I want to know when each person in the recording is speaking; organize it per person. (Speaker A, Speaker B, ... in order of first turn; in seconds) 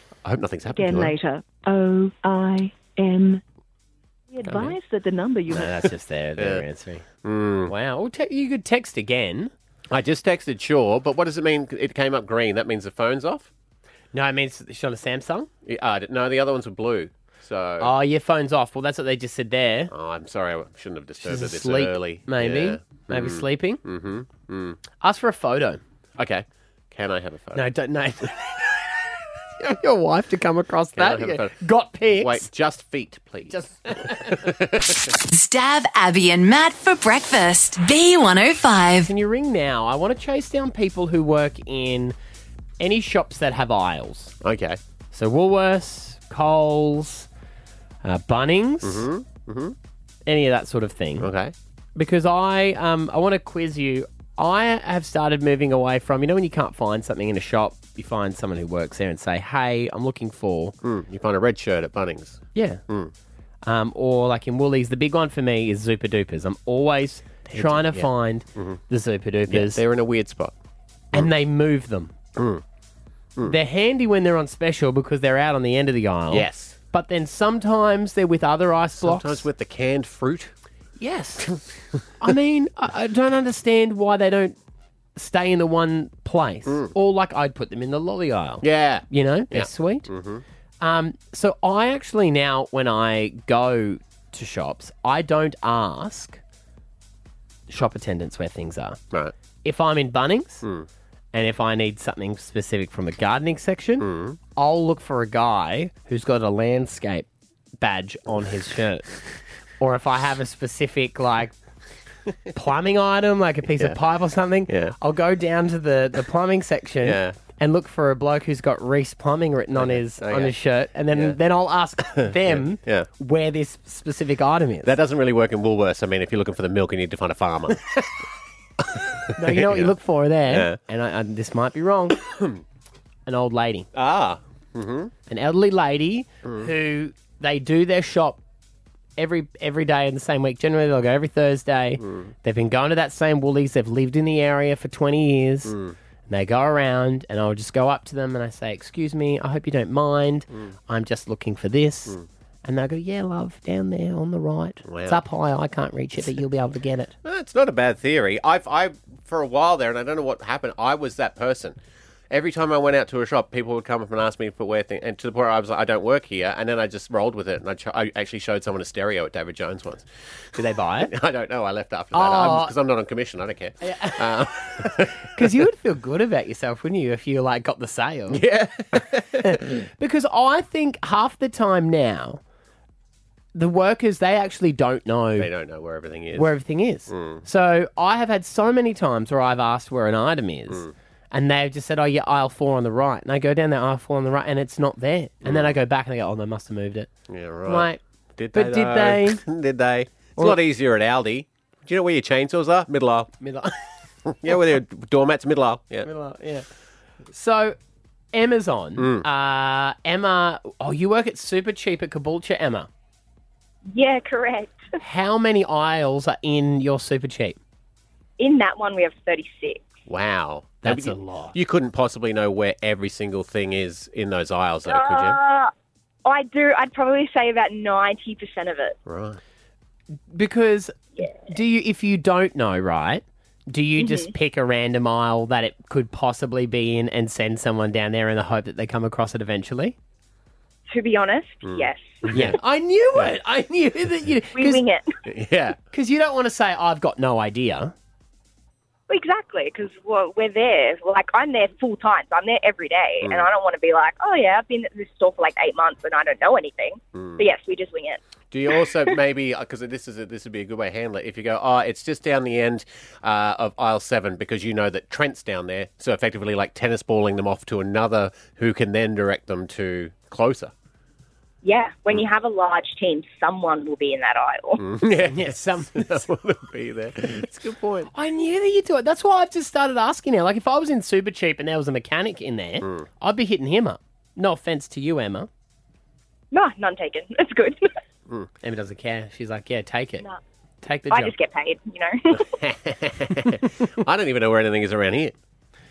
Speaker A: 0.2-1.1, 4.4-4.8, 6.4-6.7, 7.2-7.7, 9.9-13.5, 15.6-17.9, 19.9-24.8, 26.2-27.6, 30.9-31.5, 32.1-35.1, 44.4-44.8, 48.8-49.8, 51.2-51.5, 60.8-63.1, 67.5-68.8, 69.5-70.5, 72.3-72.6, 76.3-76.8, 79.0-80.5, 86.7-86.9, 88.6-90.4, 100.6-100.9, 104.0-104.4, 114.7-115.0, 117.0-117.4, 119.8-120.5, 121.1-121.4, 122.2-123.1, 124.8-127.8, 128.8-129.9, 130.5-130.8, 132.2-132.6, 133.9-135.1, 136.4-136.7, 142.0-142.3, 145.6-145.9, 154.8-155.2, 157.2-161.8, 162.3-170.1, 171.0-175.5, 178.3-179.6, 185.4-186.5, 187.1-187.4, 195.4-195.8, 197.3-203.3, 204.3-206.1, 209.0-209.2, 220.1-225.4, 229.1-229.4, 241.6-242.6, 245.2-245.8, 253.2-253.5, 257.1-257.4, 258.5-270.7, 274.8-278.1, 292.3-295.4
Speaker B: 0.7-3.4, 4.3-5.7
Speaker C: 5.5-7.0, 7.7-9.5, 14.1-15.5, 17.8-19.9, 21.2-23.8, 25.0-25.8, 27.5-28.8, 29.6-32.5, 33.5-34.5, 39.0-42.1, 42.8-44.3, 45.1-47.3, 48.0-49.1, 50.2-51.3, 52.0-60.7, 62.5-62.8, 63.6-69.8, 71.1-72.1, 73.5-79.5, 81.0-81.6, 82.2-84.6, 85.2-90.1, 90.8-96.4, 97.7-99.0, 99.6-100.7, 101.3-107.3, 107.8-109.2, 109.8-111.5, 112.5-124.9, 129.4-132.2, 133.3-133.9, 135.3-138.4, 139.2-145.8, 146.3-157.1, 170.6-171.1, 172.1-172.7, 173.8-178.4, 179.4-182.4, 183.5-185.5, 186.3-197.1, 197.7-198.0, 198.5-199.4, 203.4-203.8, 206.0-206.7, 207.3-207.8, 208.3-212.9, 215.0-217.6, 220.8-221.5, 230.3-230.9, 231.5-239.9, 242.3-244.8, 245.9-247.9, 275.3-276.2, 278.1-285.5, 288.6-290.2, 290.8-291.3
Speaker D: 35.2-39.1
Speaker E: 213.9-214.8, 218.4-219.8, 224.9-225.7, 226.2-228.9, 234.0-234.3, 240.9-242.2, 244.5-245.1, 249.1-258.2, 271.6-274.8, 286.5-287.9, 291.1-292.5